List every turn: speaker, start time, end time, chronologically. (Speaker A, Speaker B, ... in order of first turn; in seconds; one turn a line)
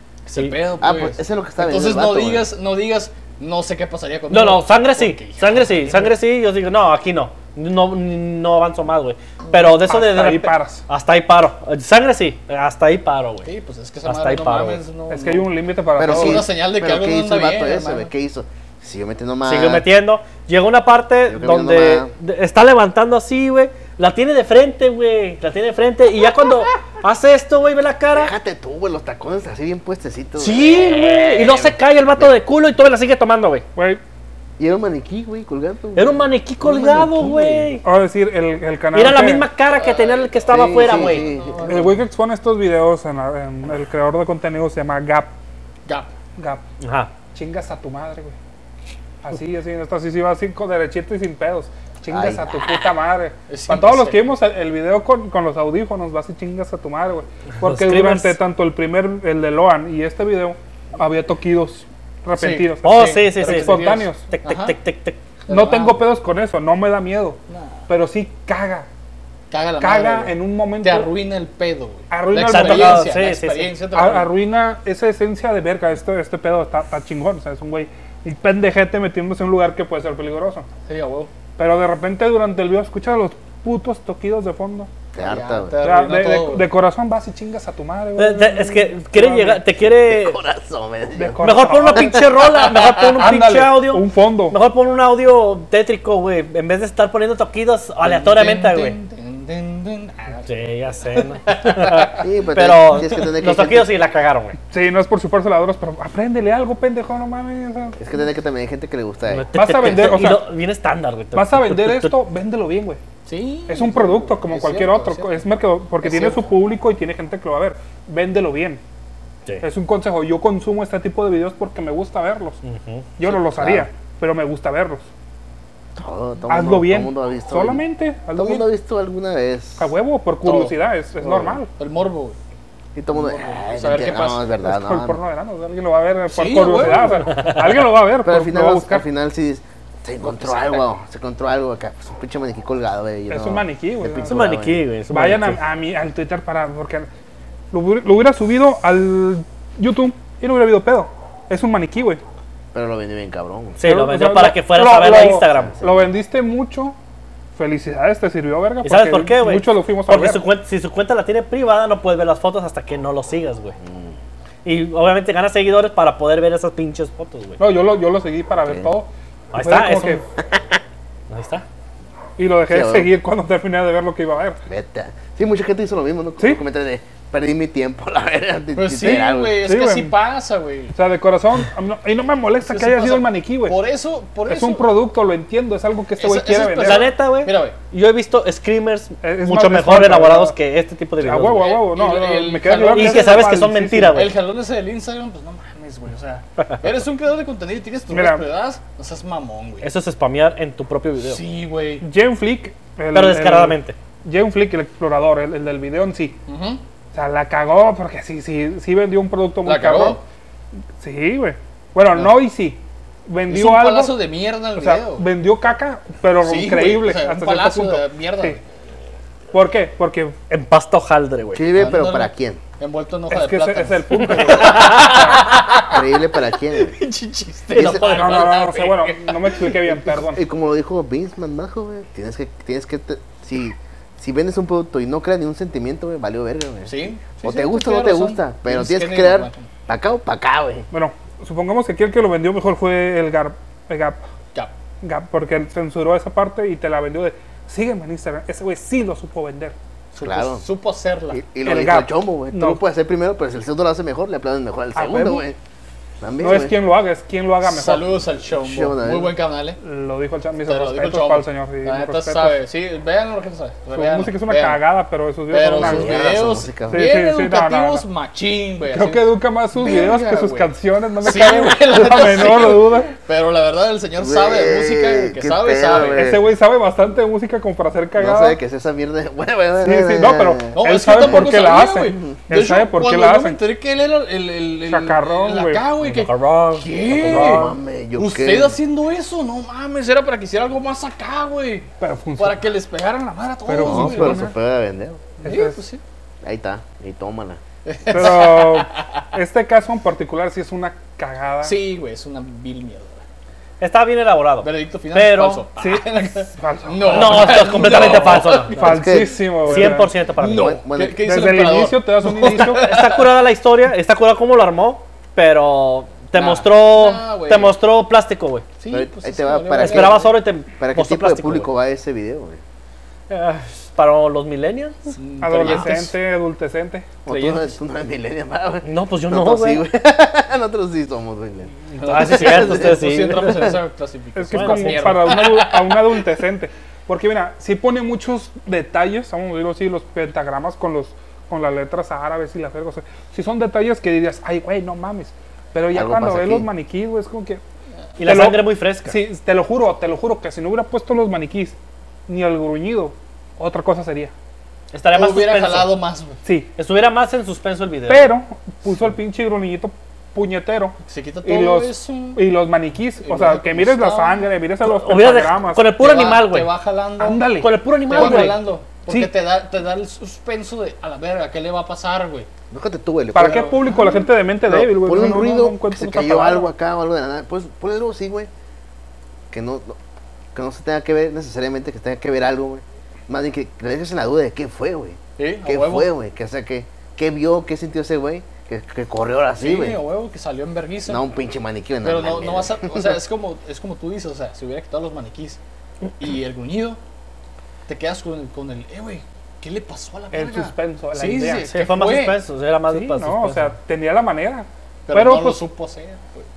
Speaker A: 0.2-6.1
Speaker B: 0.8-2.5
Speaker C: 4.3-13.5
Speaker D: 9.8-10.8
Speaker A: 13.4-15.5
Speaker C: 14.1-14.8
Speaker D: 15.1-16.4
Speaker B: 15.9-19.9
Speaker A: 16.0-18.1
Speaker C: 19.4-28.3
Speaker B: 21.3-22.1
Speaker B: 28.1-32.3
Speaker C: 30.4-33.6
Speaker D: 33.8-34.0
Speaker B: 34.6-37.8
Speaker C: 35.9-37.8
Speaker D: 37.8-39.5
Speaker C: 38.9-41.3
Speaker A: 39.7-42.0
Speaker B: 40.5-41.8
Speaker D: 41.6-45.3
Speaker A: 45.9-46.1
Speaker D: 46.4-46.6
Speaker C: 46.8-47.1
Speaker D: 47.3-48.4
Speaker D: 49.2-64.2
Speaker B: 52.1-53.0
Speaker A: 53.5-54.3
Speaker C: 57.6-58.4
Speaker A: 62.3-64.8
Speaker C: 62.8-65.2
Speaker A: 65.5-66.0
Speaker D: 65.5-68.9
Speaker A: 67.5-67.9
Speaker A: 69.5-74.3
Speaker D: 69.8-71.1
Speaker D: 72.1-73.1
Speaker C: 72.4-73.8
Speaker D: 73.9-80.7
Speaker A: 80.9-81.3
Speaker D: 81.6-84.9
Speaker B: 85.1-85.7
Speaker A: 85.2-86.7
Speaker D: 85.8-89.6
Speaker C: 88.2-90.4
Speaker B: 90.0-91.4
Speaker D: 91.1-92.3
Speaker C: 91.4-99.0
Speaker A: 92.0-93.1
Speaker D: 93.0-94.5
Speaker A: 98.0-100.5
Speaker C: 100.5-104.6
Speaker A: 101.4-102.2
Speaker B: 102.2-103.9
Speaker D: 104.7-108.0
Speaker B: 108.0-109.5
Speaker C: 109.3-112.1
Speaker D: 109.5-110.5
Speaker D: 111.3-113.0
Speaker A: 113.2-115.4
Speaker D: 113.7-118.8
Speaker A: 116.0-116.5
Speaker D: 119.6-122.6
Speaker C: 122.6-123.1
Speaker D: 123.2-125.1
Speaker B: 123.2-123.9
Speaker B: 125.9-127.8
Speaker D: 126.5-128.7
Speaker B: 128.3-129.9
Speaker D: 129.8-131.7
Speaker A: 130.4-130.7
Speaker B: 131.2-131.6
Speaker A: 131.8-132.4
Speaker B: 132.9-135.2
Speaker A: 133.1-134.5
Speaker D: 134.6-139.0
Speaker A: 136.3-137.3
Speaker C: 137.4-137.7
Speaker B: 138.2-144.9
Speaker A: 140.4-140.8
Speaker D: 143.3-144.5
Speaker C: 144.2-145.6
Speaker D: 145.1-147.1
Speaker D: 147.7-152.2
Speaker B: 152.7-153.8
Speaker C: 153.8-155.8
Speaker D: 153.8-156.9
Speaker B: 155.4-156.1
Speaker D: 157.5-160.4
Speaker C: 158.8-163.8
Speaker B: 163.8-164.2
Speaker C: 164.6-167.6
Speaker D: 167.6-170.2
Speaker C: 169.5-170.2
Speaker C: 171.3-171.6
Speaker D: 172.4-174.6
Speaker B: 172.7-173.1
Speaker B: 174.7-179.6
Speaker A: 178.7-180.9
Speaker D: 179.0-180.1
Speaker D: 180.9-183.8
Speaker A: 182.6-184.9
Speaker D: 184.5-187.1
Speaker A: 186.2-187.8
Speaker C: 186.8-191.8
Speaker D: 189.2-190.5
Speaker D: 191.2-194.3
Speaker A: 191.6-193.4
Speaker C: 192.9-194.4
Speaker A: 194.1-199.9
Speaker D: 198.1-198.4
Speaker C: 199.8-201.4
Speaker A: 201.2-202.0
Speaker D: 202.0-206.4
Speaker C: 203.1-203.9
Speaker A: 206.5-206.8
Speaker D: 207.1-210.2
Speaker A: 209.6-210.2
Speaker D: 211.0-214.2
Speaker A: 213.5-215.2
Speaker D: 214.7-218.6
Speaker A: 216.4-218.6
Speaker D: 219.5-220.4
Speaker C: 220.5-221.6
Speaker B: 221.5-222.6
Speaker A: 221.7-226.1
Speaker D: 223.3-225.5
Speaker C: 224.3-225.3
Speaker B: 225.8-226.9
Speaker A: 226.8-229.8
Speaker B: 227.7-228.4
Speaker D: 227.7-230.4
Speaker B: 229.8-240.9
Speaker A: 236.8-239.7
Speaker D: 240.9-244.2
Speaker D: 245.0-249.8
Speaker A: 250.1-251.4
Speaker B: 250.2-250.6
Speaker B: 251.3-255.6
Speaker D: 251.6-252.8
Speaker D: 254.9-255.5
Speaker B: 256.2-256.8
Speaker D: 256.4-258.1
Speaker A: 257.6-259.8
Speaker B: 258.5-259.4
Speaker D: 259.8-262.6
Speaker A: 260.6-264.8
Speaker D: 263.9-266.4
Speaker A: 265.5-276.3
Speaker B: 265.6-267.1
Speaker D: 266.9-268.0
Speaker D: 268.9-273.1
Speaker B: 274.2-276.5
Speaker D: 276.0-278.6
Speaker B: 278.1-281.6
Speaker D: 279.8-283.6
Speaker A: 280.7-294.5
Speaker D: 284.9-285.8
Speaker C: 286.0-287.8
Speaker B: 287.2-288.8
Speaker D: 287.3-287.6
Speaker D: 292.0-292.6
Speaker D: 293.7-294.5
Speaker B: 293.8-295.2
Speaker D: 295.4-295.8
Speaker A: 295.4-296.0
Speaker B: 296.4-297.6
Speaker A: 297.8-299.1
Speaker D: 298.1-301.8
Speaker A: 301.6-303.2
Speaker C: 303.8-305.6
Speaker A: 304.6-313.3
Speaker D: 305.8-310.1
Speaker C: 307.1-308.9
Speaker B: 308.8-309.4
Speaker C: 309.6-310.8
Speaker B: 310.4-311.2
Speaker D: 311.2-312.9
Speaker C: 312.4-318.6
Speaker A: 316.3-317.8
Speaker A: 318.8-320.3
Speaker B: 318.9-322.6
Speaker C: 319.7-321.7
Speaker C: 323.3-326.0
Speaker A: 325.2-326.1
Speaker D: 325.4-327.1
Speaker B: 327.2-333.0
Speaker A: 327.2-327.7
Speaker C: 328.8-329.8
Speaker A: 331.9-336.2
Speaker C: 332.0-333.8
Speaker D: 334.3-347.6
Speaker C: 334.5-335.4
Speaker B: 345.9-346.7
Speaker C: 348.2-349.2
Speaker D: 348.2-351.8
Speaker D: 352.3-354.3
Speaker C: 354.9-355.9
Speaker A: 355.1-356.4
Speaker D: 356.4-356.7
Speaker C: 356.8-358.3
Speaker D: 358.1-365.9
Speaker A: 361.1-362.4
Speaker A: 363.2-364.5
Speaker C: 364.8-366.7
Speaker A: 366.0-372.5
Speaker D: 367.2-369.3
Speaker C: 367.6-368.7
Speaker B: 372.7-373.8
Speaker D: 373.3-376.7
Speaker A: 373.4-374.2
Speaker B: 374.6-378.5
Speaker B: 379.5-380.0
Speaker B: 380.5-390.0
Speaker A: 385.4-386.1
Speaker A: 389.6-391.3
Speaker B: 391.1-393.1
Speaker A: 392.0-395.6
Speaker A: 396.2-397.0
Speaker A: 397.9-402.4
Speaker D: 400.3-401.7
Speaker C: 401.6-403.7
Speaker D: 402.9-405.6
Speaker A: 405.1-406.5